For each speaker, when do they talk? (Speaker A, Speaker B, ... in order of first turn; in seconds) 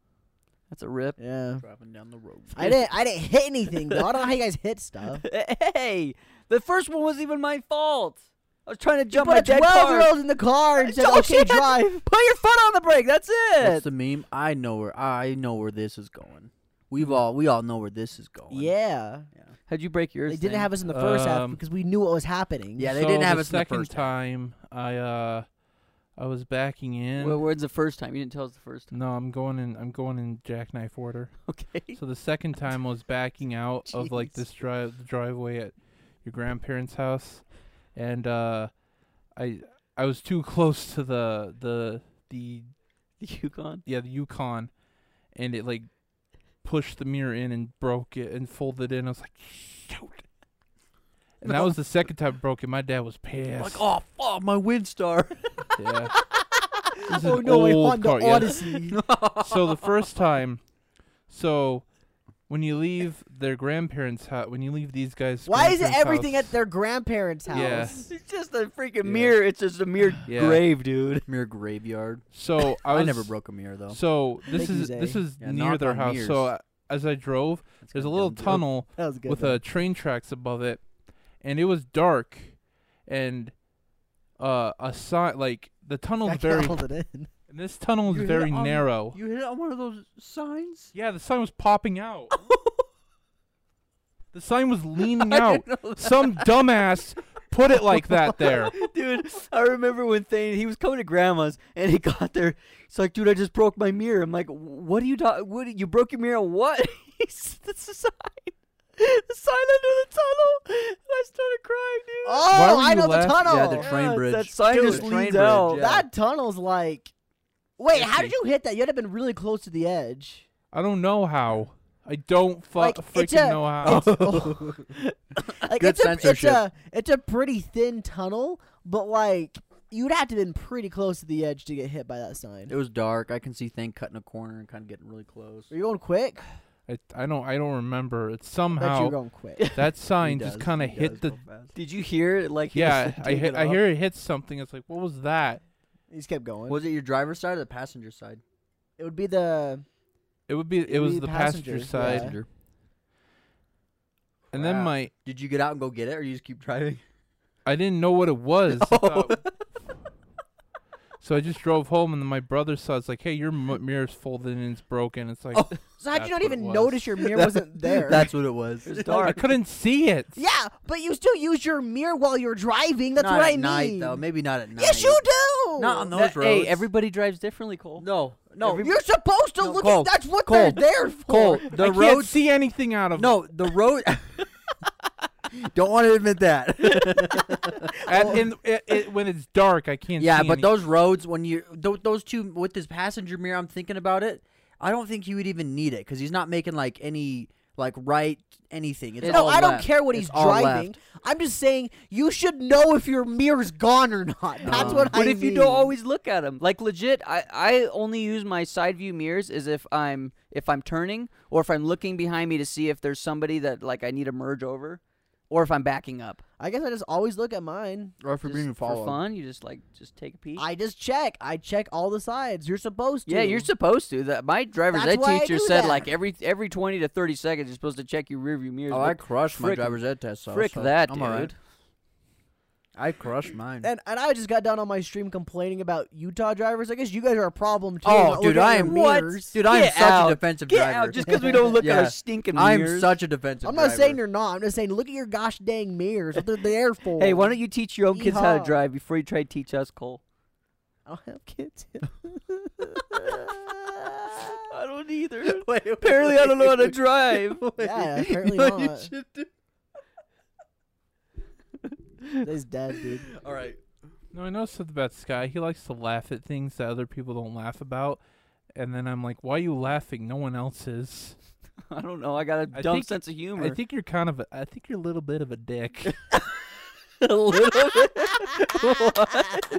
Speaker A: 0.7-1.2, 5.1-10.1, 10.8-13.9, 19.7-20.7, 27.2-28.9, 31.5-32.0, 43.2-43.8, 67.5-71.3, 98.7-112.5, 113.7-115.8, 141.8-143.8, 168.8-169.4, 176.1-178.1, 178.6-178.9, 199.2-199.5, 204.6-216.4, 218.4-220.7, 223.3-231.6, 238.8-243.2, 247.2-250.2, 254.7-257.6, 271.9-273.8, 277.8-278.3
Speaker B: 1.2-1.6, 2.5-5.2, 9.1-11.8, 18.5-19.3, 20.3-22.9, 57.1-59.0, 65.5-68.0, 74.5-75.2, 79.0-79.6, 86.2-87.3, 112.2-113.9, 114.7-117.1, 117.8-120.5, 122.8-132.7, 135.7-136.4, 138.8-139.7, 146.1-146.8, 149.0-149.8, 150.9-152.3, 166.0-168.3, 170.4-174.2, 174.8-176.1, 178.8-181.7, 188.1-188.4, 199.2-205.9, 216.6-218.2, 220.6-223.7, 224.9-226.1, 233.8-239.6, 241.2-241.9, 243.6-247.6, 248.1-248.8, 251.1-254.7, 257.8-259.1, 262.4-263.3
Speaker C: 1.6-2.8, 13.6-18.7, 22.8-24.1, 51.4-51.7, 53.6-55.6, 58.9-59.9, 69.0-69.3, 71.3-74.0, 75.4-76.5, 77.8-78.7, 88.1-90.9, 92.4-92.8, 95.0-96.6, 113.4-116.1, 117.9-118.3, 123.8-126.6, 132.7-135.7, 140.2-141.7, 146.7-148.4, 151.9-152.5, 154.5-157.0, 158.7-159.5, 167.2-169.5, 173.2-175.2, 175.8-176.9, 178.0-179.0, 179.6-182.4, 183.1-184.5, 185.5-188.4, 190.2-200.9, 204.7-205.2, 218.2-219.2, 228.9-231.5, 233.0-233.9, 238.0-244.2, 255.4-259.5, 263.3-263.8, 277.2-279.6
Speaker D: 20.9-21.6, 22.9-25.5, 26.2-27.4, 28.9-38.7, 39.4-42.7, 43.9-44.7, 45.4-45.9, 46.6-50.3, 51.4-53.8, 55.8-56.2, 57.1-58.8, 59.4-60.6, 61.3-61.9, 62.5-66.6, 67.5-68.0, 70.3-70.6, 72.3-73.3, 73.9-80.8, 81.4-82.6, 83.1-83.5, 84.4-86.8, 87.5-89.2, 90.9-92.3, 94.3-98.7, 112.5-113.5, 120.7-124.1, 136.9-139.2, 139.7-141.4, 142.7-145.6, 150.5-152.4, 154.5-155.1, 157.7-159.4, 161.2-167.1, 169.2-170.4, 181.7-183.4, 188.1-190.7, 264.3-268.2, 268.8-271.4, 272.7-276.2